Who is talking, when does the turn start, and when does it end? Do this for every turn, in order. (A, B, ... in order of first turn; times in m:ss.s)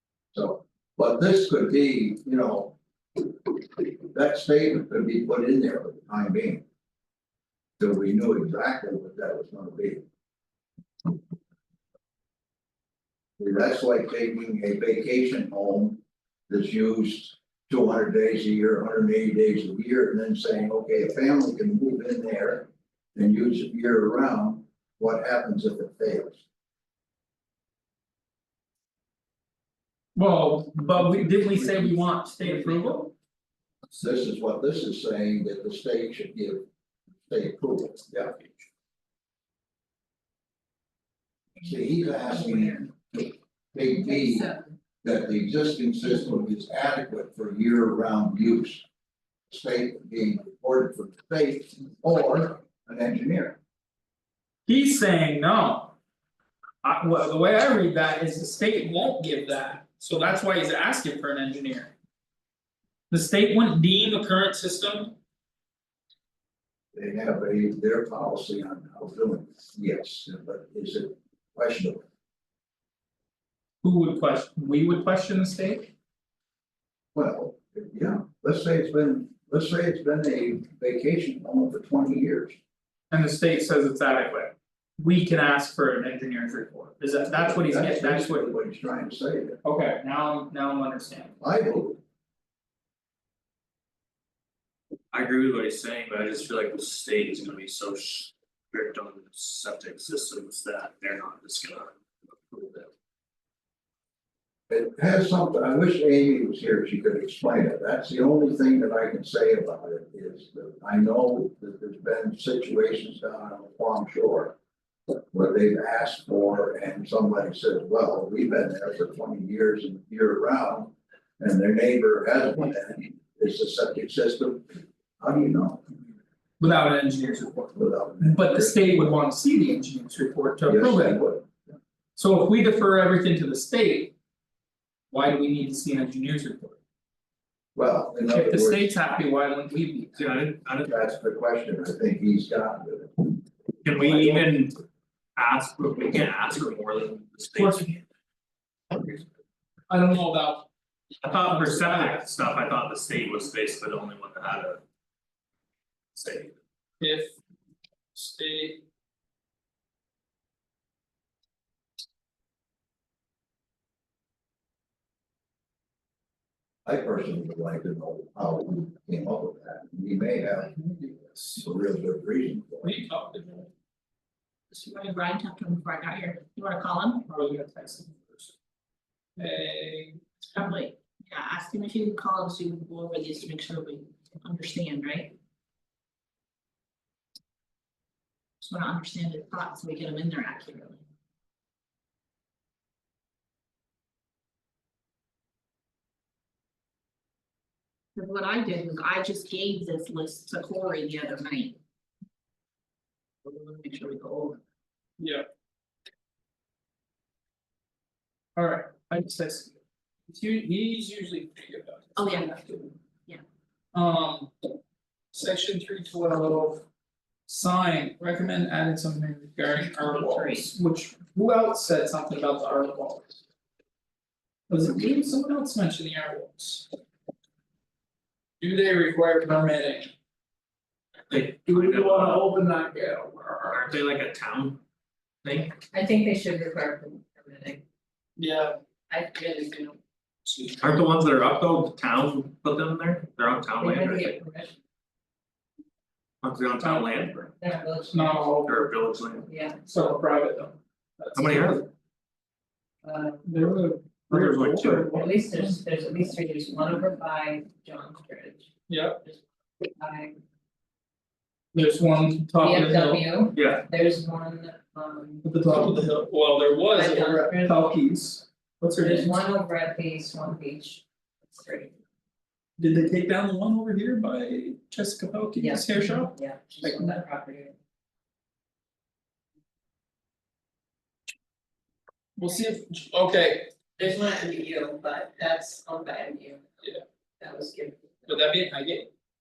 0:00.3-0:02.8 A
0:04.0-0:06.6 A
0:07.8-0:10.0 A
0:13.4-0:26.4 A
0:30.1-0:33.1 B
0:33.9-0:36.7 A
0:37.2-0:38.4 A
0:41.6-0:48.8 A
0:41.8-0:42.8 C
0:44.0-0:44.8 C
0:49.5-0:53.6 A
0:54.7-0:56.0 B
0:56.8-1:01.9 B
1:03.1-1:05.2 B
1:06.9-1:12.1 A
1:13.8-1:15.9 B
1:17.1-1:22.6 A
1:23.1-1:28.5 B
1:27.3-1:29.6 A
1:29.6-1:31.4 B
1:31.4-1:32.0 A
1:35.1-1:42.9 D
1:44.7-1:54.6 A
1:55.3-2:05.9 A
2:06.6-2:11.2 B
2:07.7-2:08.9 A
2:10.7-2:11.7 A
2:12.2-2:14.1 B
2:15.1-2:16.8 B
2:17.7-2:19.0 A
2:18.3-2:20.3 B
2:20.2-2:20.9 D
2:20.8-2:23.4 A
2:23.8-2:24.8 D
2:24.0-2:24.5 B
2:25.4-2:28.0 D
2:27.5-2:27.9 B
2:29.9-2:30.7 B
2:31.2-2:34.8 D
2:31.4-2:32.2 B
2:36.1-2:36.6 D
2:37.0-2:37.3 B
2:38.1-2:38.8 B
2:46.8-2:50.8 A
2:50.8-2:51.6 B
2:51.6-2:53.0 A
2:52.8-2:53.7 B
2:54.7-2:57.2 C
2:57.3-2:58.5 B
2:59.4-3:00.2 B
3:00.5-3:05.4 C
3:08.6-3:11.0 C
3:18.2-3:21.8 C
3:23.4-3:24.6 C
3:25.2-3:25.4 B
3:28.6-3:32.9 B
3:32.2-3:33.4 C
3:33.9-3:34.5 B
3:35.3-3:36.8 B
3:37.5-3:43.4 B
3:40.0-3:40.7 C
3:44.7-3:46.9 B
3:48.6-3:50.1 B
3:51.3-3:52.5 D
3:51.7-3:53.8 B
3:53.6-3:54.8 D
3:55.4-3:55.7 D
3:55.9-3:57.8 E
3:58.4-3:58.8 B
3:59.1-4:00.0 E
4:00.5-4:04.4 D
4:03.8-4:04.8 E
4:06.4-4:07.5 D
4:07.6-4:08.5 E
4:08.1-4:08.8 B
4:08.6-4:09.4 D
4:09.4-4:09.8 E
4:09.8-4:11.8 B
4:11.4-4:11.9 D
4:13.0-4:13.6 E
4:13.4-4:15.8 B
4:14.3-4:15.4 D
4:14.9-4:18.7 E
4:18.9-4:19.2 B
4:19.2-4:20.4 E
4:21.7-4:23.3 B
4:22.6-4:25.4 E
4:23.5-4:23.8 D
4:25.4-4:29.3 B
4:26.9-4:27.8 E
4:29.0-4:31.9 E
4:32.8-4:37.2 B
4:35.6-4:37.8 E
4:42.4-4:43.9 B
4:44.0-4:48.3 E
4:48.3-4:49.1 B